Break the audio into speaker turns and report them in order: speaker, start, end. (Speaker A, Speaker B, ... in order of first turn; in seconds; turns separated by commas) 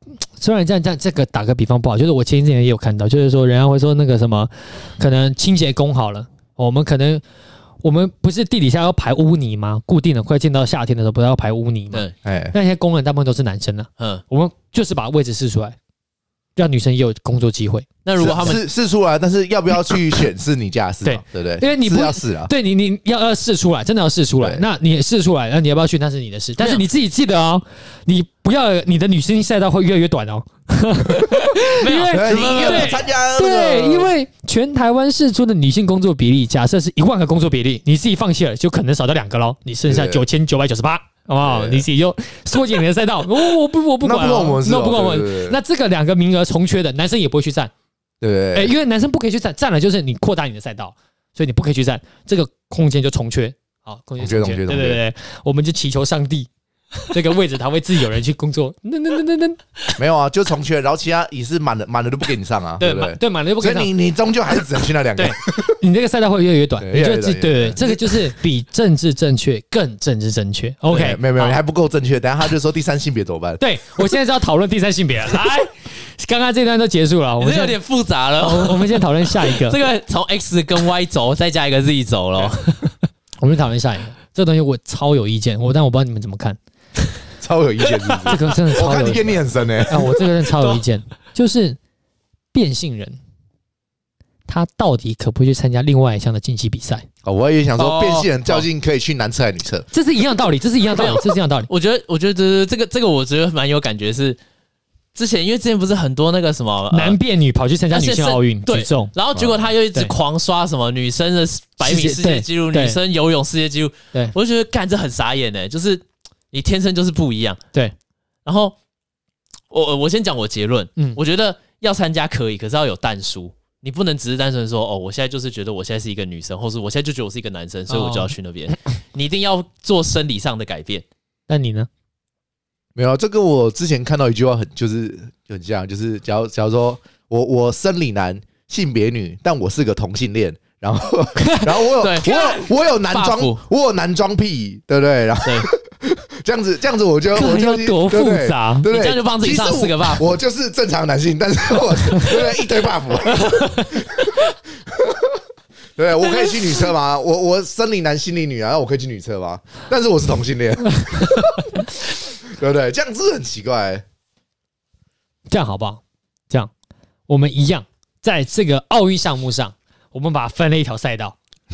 Speaker A: 0.4-7.2, Speaker A: 7.8-15.8, Speaker B: 12.2-12.5, Speaker A: 16.6-17.9, Speaker C: 18.0-18.6, Speaker B: 18.2-22.5, Speaker A: 21.0-47.7, Speaker C: 31.7-33.0, Speaker B: 32.1-34.1, Speaker B: 39.9-40.2, Speaker B: 41.4-41.9, Speaker B: 44.0-45.6, Speaker B: 48.2-48.7, Speaker A: 48.5-56.5, Speaker B: 54.2-55.0, Speaker A: 57.1-59.6, Speaker B: 60.0-65.8, Speaker A: 62.8-63.9, Speaker A: 65.2-71.6, Speaker B: 66.8-68.3, Speaker B: 70.9-73.6, Speaker A: 73.6-77.8, Speaker C: 77.4-82.8, Speaker A: 78.4-79.8, Speaker A: 83.4-86.6, Speaker B: 87.4-90.1, Speaker A: 88.3-89.3, Speaker A: 89.9-91.8, Speaker C: 90.5-90.8, Speaker A: 92.5-93.2, Speaker A: 94.5-97.0, Speaker B: 97.2-99.9, Speaker C: 97.8-98.7, Speaker A: 99.9-101.7, Speaker C: 100.9-104.4, Speaker C: 105.1-107.2, Speaker A: 106.9-109.1, Speaker C: 107.9-117.6, Speaker A: 111.8-113.0, Speaker C: 118.4-118.8, Speaker C: 119.7-131.0, Speaker A: 127.9-128.3, Speaker A: 131.5-131.9, Speaker B: 132.9-155.4, Speaker C: 142.0-143.6, Speaker A: 147.3-148.9, Speaker C: 148.9-150.3, Speaker A: 153.5-153.9, Speaker B: 155.9-161.7, Speaker B: 162.4-164.0, Speaker A: 165.5-166.7, Speaker A: 167.3-171.3